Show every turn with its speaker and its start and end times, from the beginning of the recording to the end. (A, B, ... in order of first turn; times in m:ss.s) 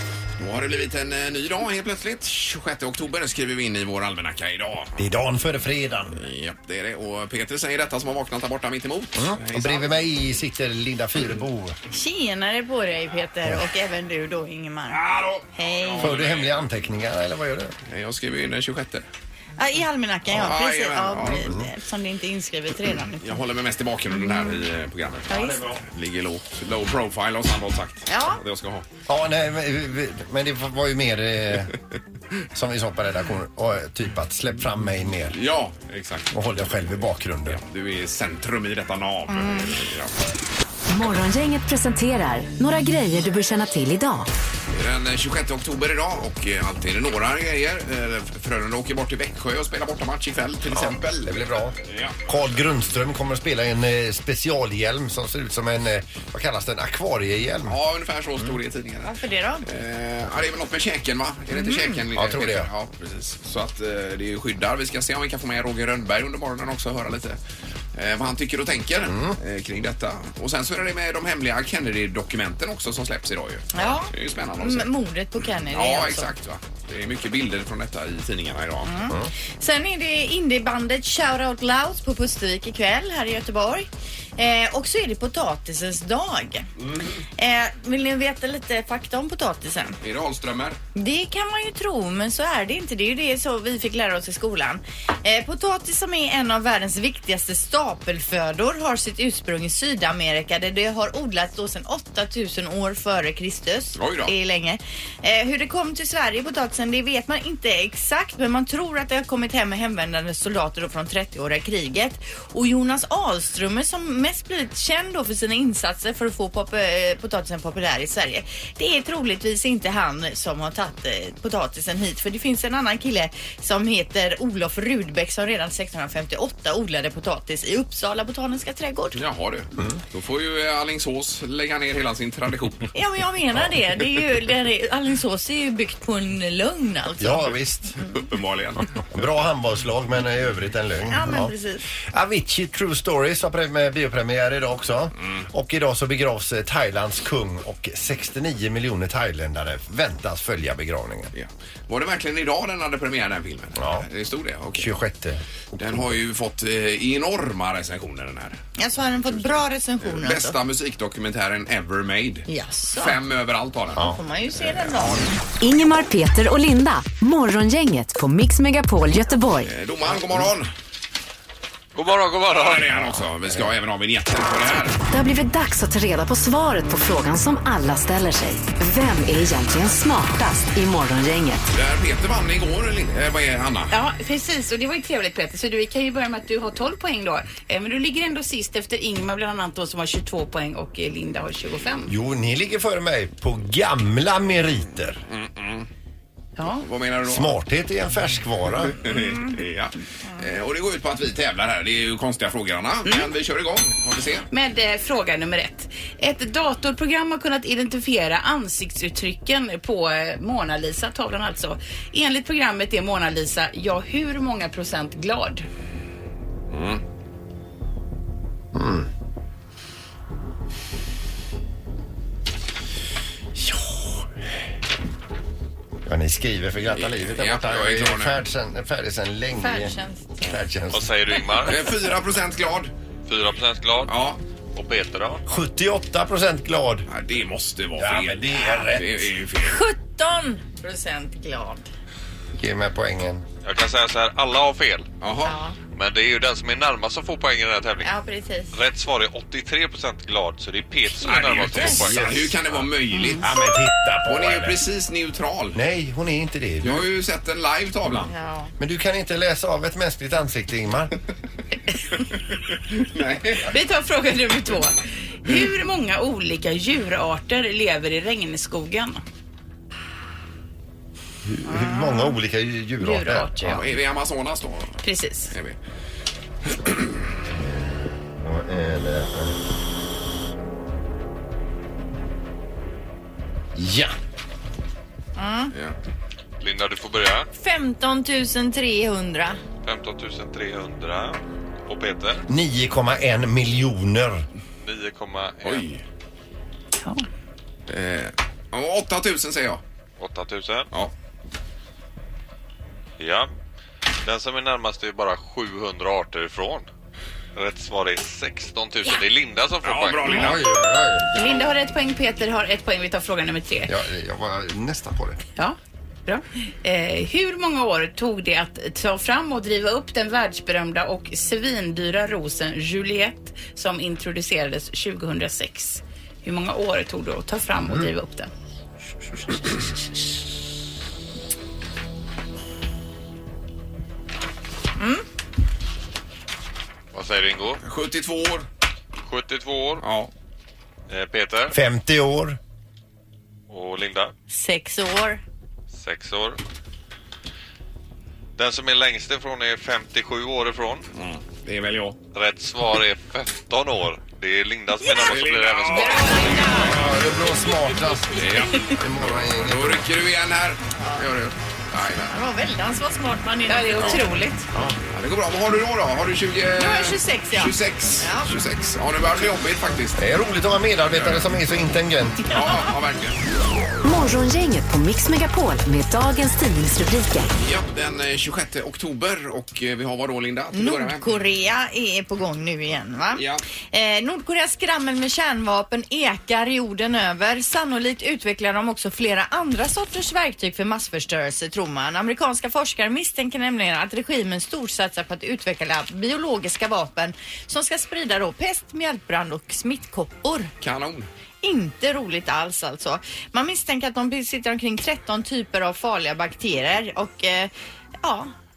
0:00.4-0:05.0 A
0:05.0-0:06.2 B
0:06.2-0:09.9 A
0:09.2-0:11.8 B
0:11.9-0:15.0 C
0:14.9-0:16.7 A
0:15.6-0:16.2 C
0:16.0-0:17.7 B
0:17.9-0:19.0 A
0:19.6-0:23.4 C
0:20.3-0:21.6 A
0:23.2-0:28.8 A
0:24.1-0:24.6 C
0:25.3-0:25.6 C
0:28.1-0:28.4 C
0:29.1-0:31.7 B
0:32.5-0:35.4 B
0:35.3-0:36.8 A
0:36.3-0:37.6 B
0:37.4-0:40.1 A
0:39.3-0:39.7 C
0:40.9-0:44.3 D
0:44.7-0:52.2 A
0:50.7-0:51.7 B
0:52.2-0:57.8 B
0:57.6-1:07.4 A
0:59.0-0:59.6 C
1:02.1-1:02.7 B
1:07.9-1:14.9 A
1:09.0-1:09.4 B
1:13.7-1:16.3 C
1:15.7-1:18.9 A
1:18.8-1:26.7 C
1:27.4-1:30.0 C
1:30.0-1:30.8 A
1:31.0-2:09.2 C
1:44.0-1:44.3 A
2:09.1-2:12.9 A
2:12.9-2:17.5 C
2:17.2-2:18.0 B
2:18.1-2:19.0 A
2:19.1-2:21.5 B
2:21.1-2:21.8 C
2:22.1-2:31.3 B
2:31.3-2:34.9 A
2:33.8-2:34.0 B
2:34.7-2:35.4 B
2:35.7-2:38.6 A
2:38.8-2:40.6 C
2:39.2-2:44.1 A
2:42.5-2:43.2 C
2:44.0-2:45.4 C
2:45.6-2:49.7 D
2:49.6-2:50.7 A
2:51.9-2:52.9 E
2:52.5-2:55.0 A
2:55.1-3:01.7 D
3:01.7-3:03.9 A
3:03.9-3:12.1 F
3:12.1-3:15.2 B
3:15.3-3:15.9 A
3:16.6-3:16.8 F
3:16.8-3:17.5 A
3:17.2-3:19.0 B
3:18.8-3:24.5 A
3:19.1-3:19.4 C
3:24.5-3:35.6 F
3:36.7-3:37.0 A
3:38.7-3:39.1 B
3:43.6-3:44.3 B
3:46.0-3:51.1 B
3:46.9-3:48.4 A
3:49.6-3:50.5 C
3:50.9-3:51.8 E
3:51.7-3:52.9 A
3:53.3-3:54.1 E
3:54.1-3:54.4 A
3:54.7-3:55.4 E
3:55.5-3:57.1 B
3:57.1-3:59.8 A
3:58.0-3:59.3 B
3:59.6-4:01.8 C
4:02.5-4:03.4 B
4:03.6-4:05.1 E
4:05.2-4:05.6 A
4:05.4-4:05.8 C
4:05.9-4:08.1 E
4:08.0-4:08.8 C
4:08.7-4:12.3 E
4:11.2-4:13.5 A
4:11.2-4:12.0 C
4:11.9-4:12.9 B
4:13.4-4:14.8 B
4:14.2-4:15.8 A
4:15.7-4:17.0 B
4:16.8-4:18.3 A
4:18.2-4:18.7 C
4:18.8-4:21.1 B
4:22.9-4:23.7 A
4:23.7-4:29.2 F
4:31.4-4:33.8 B
4:31.7-4:32.3 C
4:33.0-4:33.9 F
4:33.6-4:35.0 A
4:35.0-4:35.5 F
4:35.5-4:35.8 A
4:36.8-4:37.1 A
4:37.5-4:39.6 B
4:43.7-4:44.1 B
4:45.4-4:45.7 C
4:45.7-4:46.0 A
4:46.6-4:47.5 E
4:47.5-4:49.6 C
4:49.8-4:52.4 E
4:52.5-4:54.4 B
4:54.8-4:55.8 E
4:55.6-4:56.0 A
4:57.9-4:59.8 A
5:00.2-5:00.9 E
5:03.2-5:03.5 E
5:04.2-5:06.9 E
5:07.5-5:10.5 E
5:09.8-5:10.6 A
5:10.3-5:11.3 B
5:11.3-5:13.9 F
5:13.9-5:15.4 B
5:15.6-5:28.5 F
5:35.0-5:35.2 C
5:37.1-5:37.8 E
5:37.8-5:38.7 A
5:39.2-5:40.0 E
5:40.0-5:40.3 A
5:41.1-5:41.8 E
5:41.7-5:42.6 B
5:43.7-5:44.3 E
5:44.5-5:45.4 C
5:45.9-5:46.6 E
5:48.6-5:51.0 E
5:51.1-5:52.2 A
5:52.3-5:56.5 E
5:55.2-5:56.8 A
5:56.0-5:56.9 C
5:56.7-6:00.0 B
5:58.4-6:02.3 A
6:01.0-6:01.2 C
6:02.3-6:04.4 C
6:03.7-6:04.6 F
6:04.0-6:04.2 A
6:05.1-6:10.2 A
6:06.8-6:08.5 C
6:10.2-6:12.6 B
6:11.1-6:11.4 A
6:12.5-6:13.4 A
6:14.0-6:17.5 D
6:17.6-6:21.3 A
6:20.7-6:40.7 C
6:23.3-6:23.6 A
6:40.8-6:41.3 A
6:41.6-6:47.7 C
6:48.2-6:48.5 C